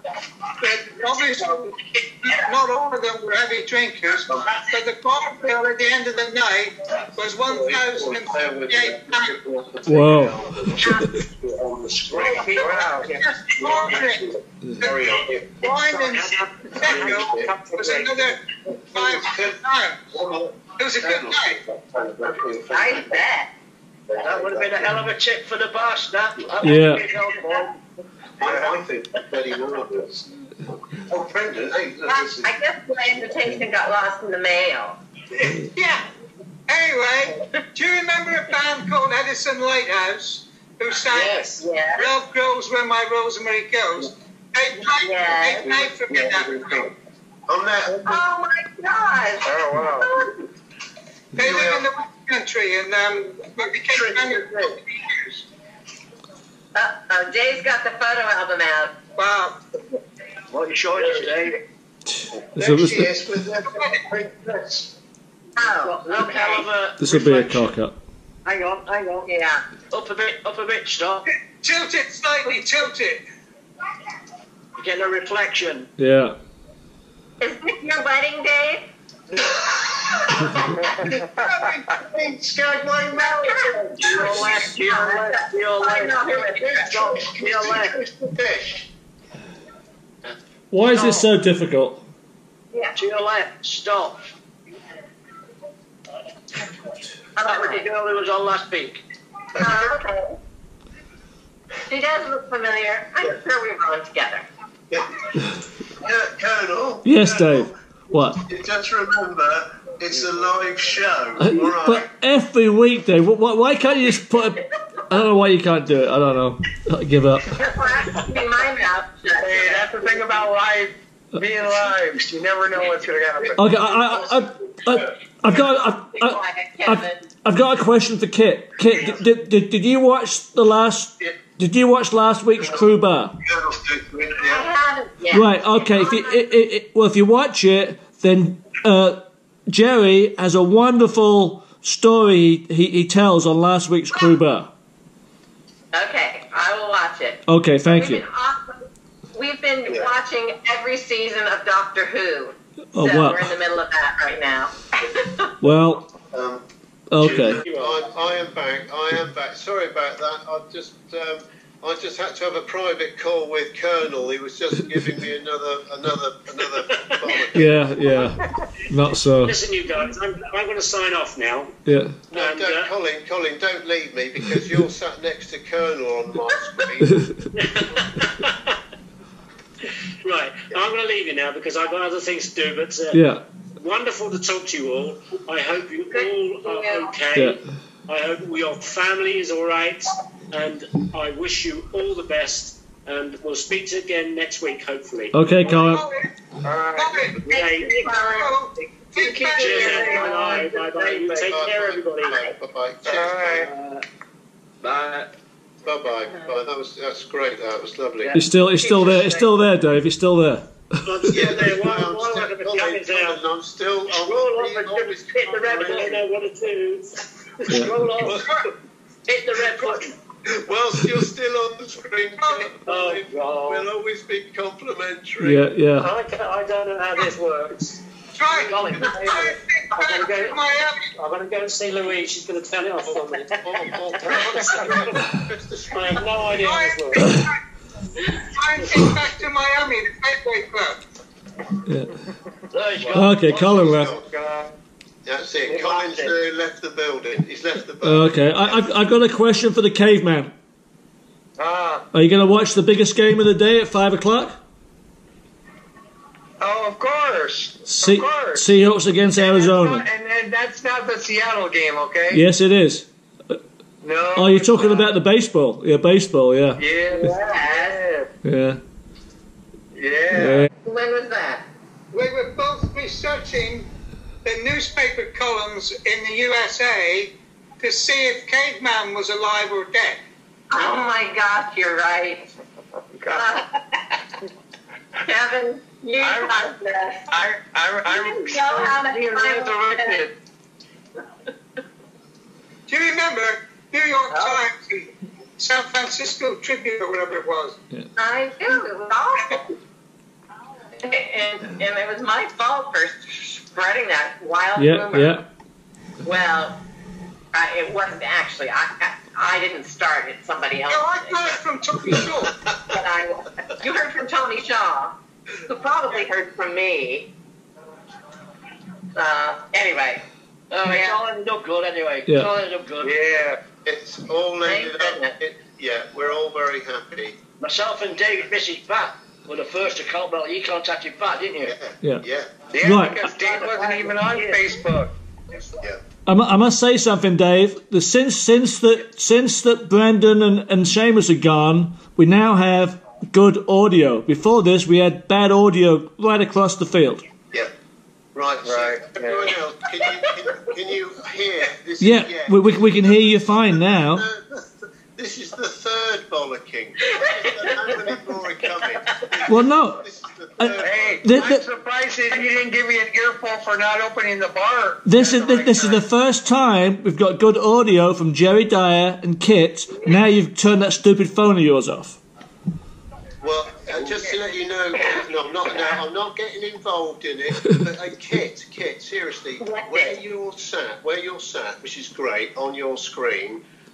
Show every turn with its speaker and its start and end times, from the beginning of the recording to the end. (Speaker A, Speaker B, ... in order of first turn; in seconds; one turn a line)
Speaker A: 0.6-9.3
Speaker B: 4.3-4.6
Speaker B: 7.4-15.9
Speaker C: 9.9-10.4
Speaker A: 12.4-14.3
Speaker D: 12.5-13.1
Speaker E: 12.6-13.1
Speaker A: 14.8-15.1
Speaker A: 15.6-20.0
Speaker F: 16.0-18.4
Speaker B: 16.8-17.5
Speaker B: 18.9-23.2
Speaker A: 20.8-21.6
Speaker G: 22.7-23.5
Speaker B: 24.1-25.0
Speaker D: 24.2-27.8
Speaker C: 26.6-27.1
Speaker B: 28.4-32.5
Speaker G: 32.1-35.0
Speaker A: 35.3-36.1
Speaker A: 36.7-46.9
Speaker F: 41.1-41.6
Speaker G: 41.6-42.1
Speaker G: 44.8-45.9
Speaker B: 45.6-46.9
Speaker B: 47.5-48.2
Speaker G: 48.0-50.3
Speaker E: 49.4-50.1
Speaker A: 51.4-54.8
Speaker B: 51.4-51.9
Speaker B: 53.9-54.8
Speaker G: 56.7-59.0
Speaker A: 59.2-59.6
Speaker D: 60.5-61.6
Speaker C: 62.1-63.1
Speaker B: 62.5-64.9
Speaker A: 63.7-64.0
Speaker G: 65.6-66.7
Speaker D: 65.6-67.7
Speaker C: 67.0-68.0
Speaker D: 68.5-69.3
Speaker G: 69.3-69.6
Speaker D: 69.9-71.2
Speaker A: 71.6-73.2
Speaker D: 74.8-75.9
Speaker C: 76.0-76.3
Speaker G: 77.4-78.9
Speaker B: 79.5-84.7
Speaker E: 81.0-81.4
Speaker G: 83.1-87.2
Speaker D: 84.0-88.0
Speaker B: 87.0-88.9
Speaker C: 90.7-92.0
Speaker D: 90.9-91.3
Speaker D: 93.0-94.2
Speaker G: 97.4-97.9
Speaker D: 97.5-99.0
Speaker B: 99.6-99.9
Speaker G: 99.6-100.4
Speaker G: 101.9-104.5
Speaker B: 104.9-105.2
Speaker B: 106.0-112.1
Speaker C: 107.0-108.4
Speaker C: 111.4-117.6
Speaker G: 117.6-120.0
Speaker E: 119.4-123.8
Speaker C: 123.5-133.3
Speaker B: 124.1-125.1
Speaker G: 125.8-127.2
Speaker B: 133.4-134.7
Speaker G: 134.4-136.5
Speaker C: 135.3-144.7
Speaker G: 145.9-155.5
Speaker C: 147.4-148.2
Speaker B: 149.9-150.1
Speaker C: 152.9-153.5
Speaker C: 155.6-156.1
Speaker B: 156.3-156.6
Speaker C: 157.1-157.6
Speaker B: 157.2-168.3
Speaker F: 157.6-158.0
Speaker F: 166.9-167.4
Speaker C: 167.6-169.6
Speaker F: 169.1-171.8
Speaker C: 171.9-172.2
Speaker F: 172.3-172.9
Speaker B: 172.3-177.2
Speaker F: 177.6-178.7
Speaker F: 180.2-183.2
Speaker C: 183.1-183.4
Speaker F: 183.8-195.4
Speaker G: 186.1-187.2
Speaker C: 187.3-187.6
Speaker C: 195.3-196.1
Speaker A: 195.8-196.3
Speaker E: 196.6-197.3
Speaker A: 196.9-197.4
Speaker F: 197.4-198.2
Speaker G: 197.4-198.6
Speaker A: 198.0-200.3
Speaker D: 199.1-201.6
Speaker F: 199.5-202.4
Speaker G: 199.6-200.3
Speaker B: 201.5-203.7
Speaker E: 203.1-203.7
Speaker D: 203.1-204.1
Speaker D: 204.8-205.3
Speaker B: 205.8-208.3
Speaker D: 208.2-209.7
Speaker C: 208.3-211.0
Speaker B: 211.1-216.2
Speaker F: 211.2-213.4
Speaker D: 214.1-216.2
Speaker F: 215.7-217.9
Speaker D: 217.7-218.4
Speaker A: 218.2-218.7
Speaker D: 219.3-220.2
Speaker A: 219.8-220.1
Speaker B: 220.4-225.7
Speaker A: 222.4-222.7
Speaker F: 222.9-223.8
Speaker C: 225.4-226.1
Speaker F: 226.0-228.0
Speaker A: 228.3-231.1
Speaker D: 228.6-229.6
Speaker F: 229.9-230.6
Speaker F: 231.1-233.6
Speaker B: 233.1-236.5
Speaker D: 234.3-234.8
Speaker F: 234.8-235.2
Speaker F: 235.9-237.3
Speaker A: 236.5-237.6
Speaker C: 237.1-237.4
Speaker A: 238.3-241.0
Speaker C: 241.9-242.1
Speaker D: 242.7-243.4
Speaker C: 243.1-244.1
Speaker B: 243.3-244.2
Speaker E: 244.3-244.7
Speaker B: 245.2-248.8
Speaker D: 245.7-246.3
Speaker C: 248.0-250.5
Speaker E: 251.6-252.1
Speaker C: 252.1-254.6
Speaker E: 256.6-258.7
Speaker C: 257.8-260.1
Speaker E: 259.3-262.4
Speaker C: 262.3-263.6
Speaker E: 264.0-265.1
Speaker C: 264.3-266.8
Speaker E: 266.8-268.3
Speaker G: 267.1-268.0
Speaker C: 268.4-268.8
Speaker E: 269.9-270.7
Speaker C: 270.3-270.7
Speaker G: 270.8-271.7
Speaker A: 272.1-273.9
Speaker A: 274.4-280.2
Speaker G: 280.7-282.5
Speaker E: 283.2-283.6
Speaker G: 283.3-283.8
Speaker G: 285.2-287.3
Speaker E: 286.2-286.8
Speaker E: 287.3-290.3
Speaker G: 288.1-290.3
Speaker A: 292.9-297.8
Speaker G: 294.3-294.6
Speaker G: 298.2-299.7
Speaker G: 301.0-305.4
Speaker C: 304.8-305.4
Speaker G: 306.2-306.8
Speaker G: 307.5-311.6
Speaker A: 310.9-312.6
Speaker B: 312.7-312.9
Speaker G: 312.9-315.2
Speaker G: 315.7-317.3
Speaker G: 319.2-320.2
Speaker D: 320.7-323.2
Speaker G: 320.8-321.2
Speaker C: 322.3-322.5
Speaker E: 323.0-323.6
Speaker B: 323.9-327.4
Speaker G: 324.6-325.4
Speaker D: 327.6-331.7
Speaker B: 331.6-332.5
Speaker E: 332.7-335.1
Speaker C: 332.8-333.2
Speaker D: 333.2-334.9
Speaker C: 336.3-347.2
Speaker B: 348.4-361.6
Speaker E: 348.6-349.5
Speaker C: 352.0-354.2
Speaker G: 357.1-358.0
Speaker C: 359.5-360.0
Speaker C: 360.6-361.6
Speaker E: 360.8-366.1
Speaker C: 365.1-372.2
Speaker B: 373.4-383.6
Speaker G: 379.6-380.2